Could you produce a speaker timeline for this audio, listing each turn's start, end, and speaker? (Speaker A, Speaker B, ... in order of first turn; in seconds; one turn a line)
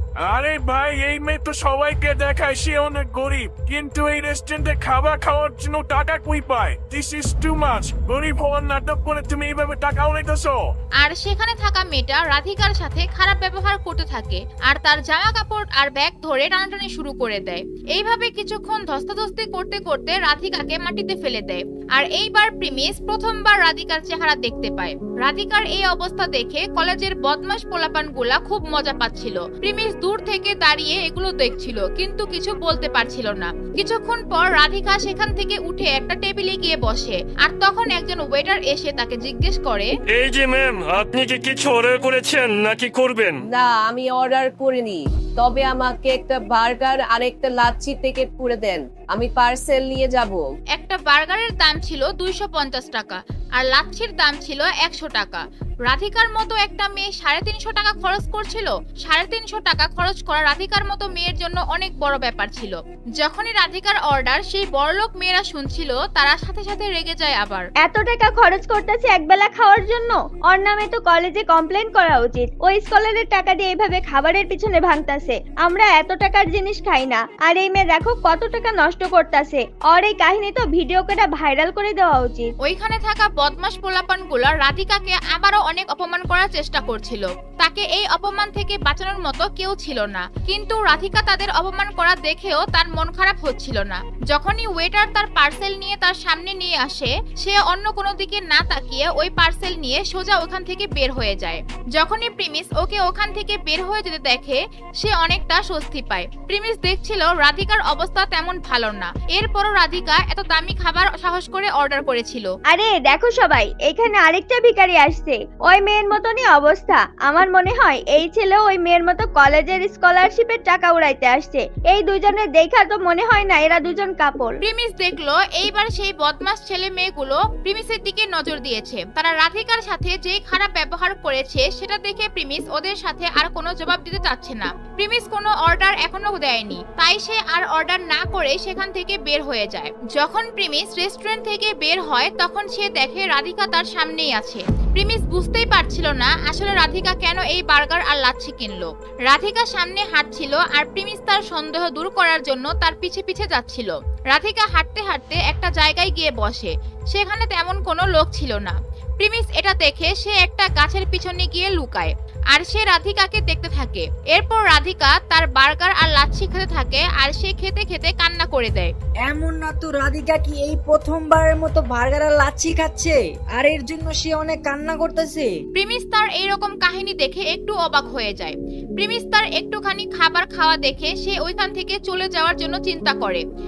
Speaker A: 0.2-10.7
Speaker B: 11.0-39.9
Speaker C: 40.1-43.4
Speaker D: 43.5-50.4
Speaker B: 50.7-67.7
Speaker E: 67.8-82.5
Speaker B: 82.6-112.5
Speaker E: 112.7-124.6
Speaker B: 124.6-168.9
Speaker F: 169.2-175.5
Speaker B: 175.8-183.4